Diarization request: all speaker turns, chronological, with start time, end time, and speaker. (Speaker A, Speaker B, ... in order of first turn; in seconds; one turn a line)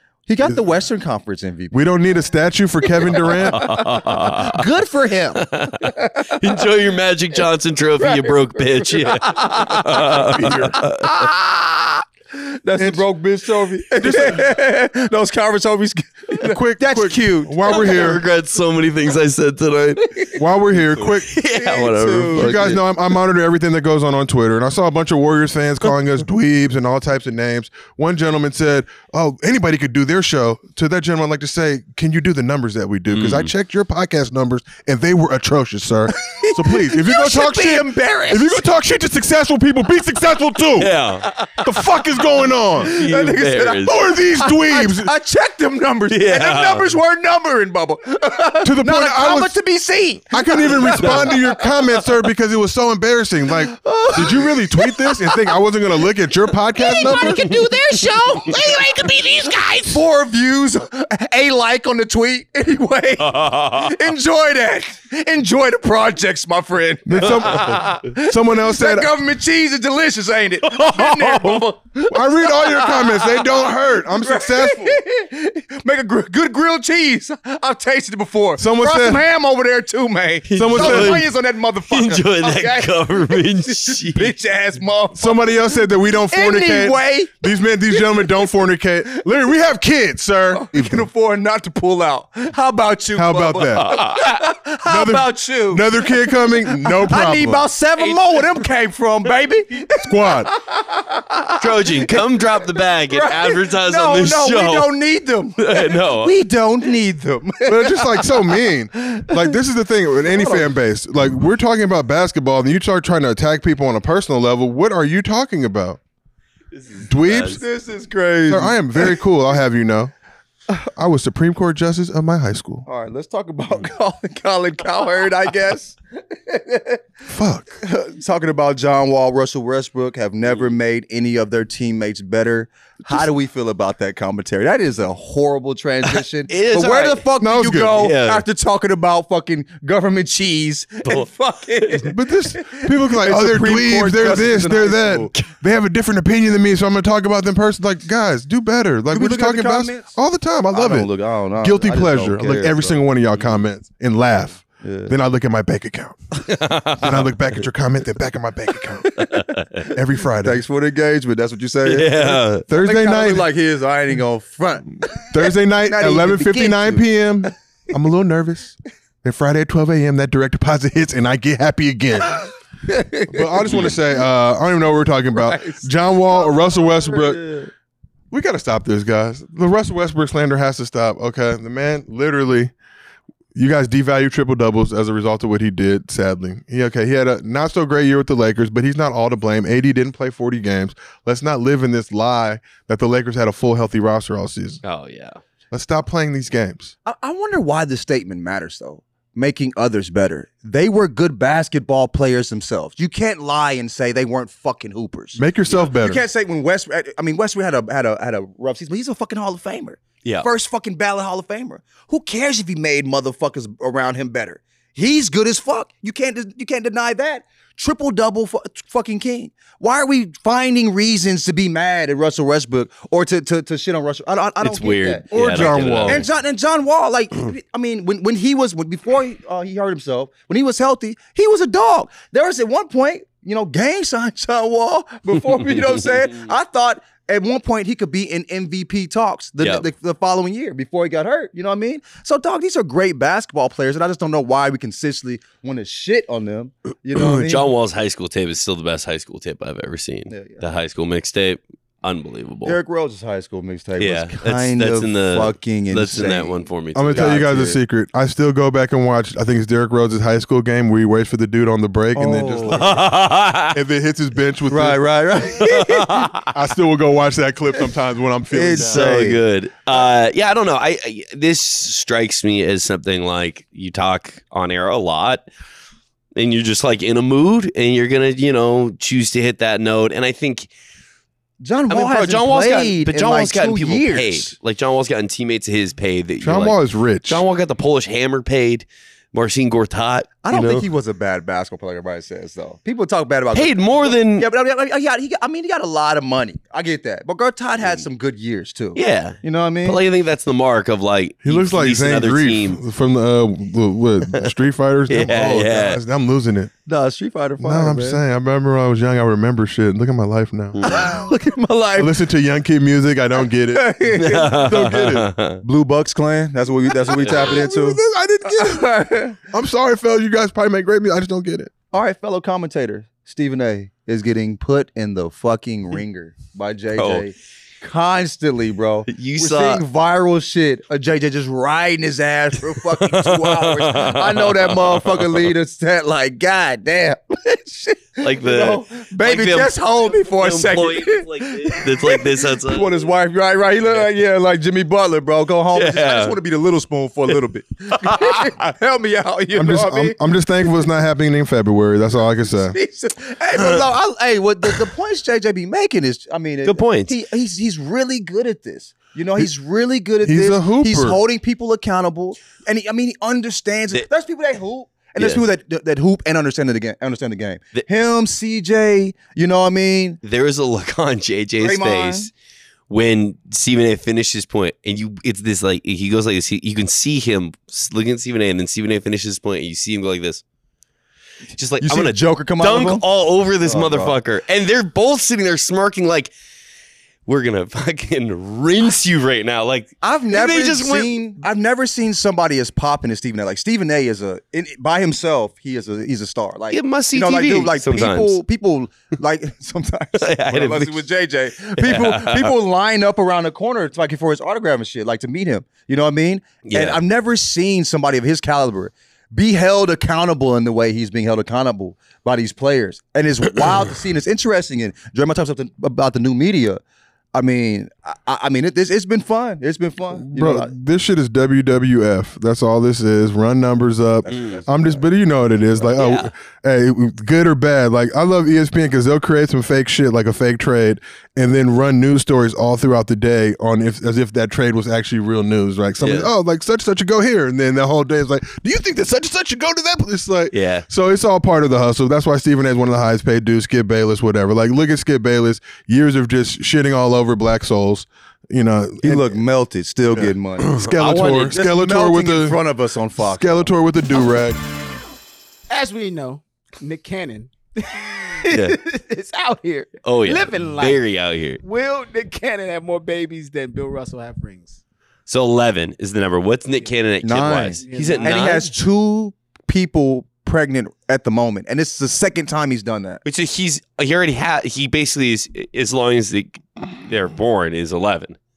Speaker A: 0.3-1.7
Speaker B: 1.7-3.7
Speaker A: 3.0-6.6
Speaker C: 3.2-4.7
Speaker C: 5.3-11.3
Speaker A: 8.0-18.1
Speaker B: 10.3-10.8
Speaker B: 12.8-13.1
Speaker B: 13.9-14.5
Speaker B: 16.4-18.2
Speaker C: 17.6-20.2
Speaker A: 20.0-20.4
Speaker B: 20.4-21.3
Speaker A: 21.0-22.8
Speaker C: 21.2-22.8
Speaker B: 22.3-41.0
Speaker C: 33.1-33.5
Speaker A: 36.1-38.6
Speaker C: 40.8-41.7
Speaker B: 41.6-43.0
Speaker A: 42.8-52.0
Speaker C: 42.8-44.1
Speaker B: 43.9-45.1
Speaker C: 46.1-46.9
Speaker B: 48.6-49.5
Speaker B: 50.3-57.6
Speaker C: 51.0-51.4
Speaker A: 53.7-55.4
Speaker D: 56.8-60.0
Speaker A: 56.9-59.1
Speaker A: 59.7-88.5
Speaker C: 63.3-63.9
Speaker B: 67.0-69.1
Speaker C: 70.6-71.6
Speaker B: 72.1-75.0
Speaker B: 78.6-79.2
Speaker C: 80.5-81.3
Speaker B: 80.5-81.2
Speaker C: 81.9-84.3
Speaker B: 85.2-91.1
Speaker A: 90.5-108.4
Speaker B: 93.1-93.9
Speaker C: 93.8-94.2
Speaker B: 94.8-97.7
Speaker C: 98.0-98.4
Speaker B: 100.0-100.5
Speaker C: 101.6-104.9
Speaker C: 105.6-106.3
Speaker B: 107.7-116.0
Speaker A: 109.0-109.4
Speaker A: 110.2-110.7
Speaker C: 116.7-117.6
Speaker B: 117.0-117.6
Speaker A: 117.4-119.2
Speaker B: 118.5-120.1
Speaker B: 120.8-122.8
Speaker A: 122.8-127.0
Speaker B: 127.3-127.8
Speaker A: 127.8-145.3
Speaker C: 136.1-137.2
Speaker B: 137.4-138.1
Speaker C: 137.9-138.4
Speaker B: 142.0-151.1
Speaker A: 149.1-150.2
Speaker A: 150.7-153.0
Speaker B: 151.6-156.4
Speaker A: 154.8-155.1
Speaker C: 156.4-157.3
Speaker B: 157.0-159.3
Speaker C: 159.2-159.8
Speaker B: 159.8-160.6
Speaker A: 160.4-167.1
Speaker C: 161.8-162.6
Speaker B: 162.7-163.4
Speaker B: 165.2-172.5
Speaker A: 172.9-173.9
Speaker B: 173.3-177.4
Speaker C: 173.7-173.9
Speaker A: 175.3-177.7
Speaker B: 178.3-182.7
Speaker B: 183.5-194.8
Speaker C: 194.8-195.4
Speaker B: 195.7-196.9
Speaker A: 197.0-247.7
Speaker B: 205.4-206.2
Speaker C: 224.6-226.3
Speaker B: 225.3-226.2
Speaker C: 247.1-252.8
Speaker A: 250.3-250.6
Speaker A: 252.6-256.5
Speaker C: 254.0-257.4
Speaker B: 256.9-263.1
Speaker A: 257.1-257.8
Speaker A: 262.1-263.0
Speaker C: 262.7-263.8
Speaker B: 263.7-265.0
Speaker A: 264.7-266.3
Speaker C: 265.6-266.5
Speaker B: 266.5-269.1
Speaker A: 268.5-269.4
Speaker C: 268.8-275.4
Speaker C: 276.4-280.7
Speaker A: 281.6-284.5
Speaker C: 281.9-290.9
Speaker B: 286.4-287.4
Speaker A: 290.4-300.0
Speaker C: 293.5-294.4
Speaker C: 298.9-302.8
Speaker B: 301.4-306.7
Speaker C: 305.1-306.0
Speaker A: 305.1-305.9
Speaker A: 306.9-308.2
Speaker B: 307.6-310.8
Speaker C: 310.8-311.2
Speaker A: 310.8-312.1
Speaker B: 312.0-315.3
Speaker A: 313.7-314.7
Speaker C: 314.1-315.6
Speaker A: 315.6-319.4
Speaker B: 317.0-318.9
Speaker C: 317.2-317.5
Speaker B: 319.4-321.7
Speaker A: 321.9-350.2
Speaker C: 327.0-327.2
Speaker C: 329.1-329.8
Speaker C: 332.8-335.4
Speaker C: 338.2-343.1
Speaker C: 345.7-346.4
Speaker C: 347.9-348.4
Speaker B: 349.5-352.7
Speaker A: 352.5-370.2
Speaker C: 353.5-353.9
Speaker C: 356.6-357.1
Speaker B: 360.2-361.2
Speaker C: 365.2-365.4
Speaker C: 370.2-372.3
Speaker A: 371.6-372.3
Speaker C: 372.9-380.4
Speaker C: 381.5-386.3
Speaker A: 381.8-383.0
Speaker A: 383.6-384.1
Speaker C: 387.2-391.1
Speaker A: 390.0-416.8
Speaker C: 396.7-398.4
Speaker C: 400.2-401.0
Speaker C: 401.8-402.5
Speaker C: 406.6-407.0
Speaker A: 417.3-420.7
Speaker B: 420.2-449.4
Speaker A: 424.3-425.0
Speaker C: 424.3-424.6
Speaker C: 425.9-426.3
Speaker C: 436.0-436.3
Speaker C: 440.5-440.8
Speaker A: 449.0-453.7
Speaker B: 450.1-452.6
Speaker C: 451.0-451.4
Speaker B: 453.2-454.6
Speaker D: 455.7-461.0
Speaker C: 458.5-458.8
Speaker C: 460.0-461.6
Speaker D: 461.6-464.8
Speaker C: 465.3-468.7
Speaker A: 467.2-473.2
Speaker D: 467.8-468.7
Speaker C: 473.2-478.4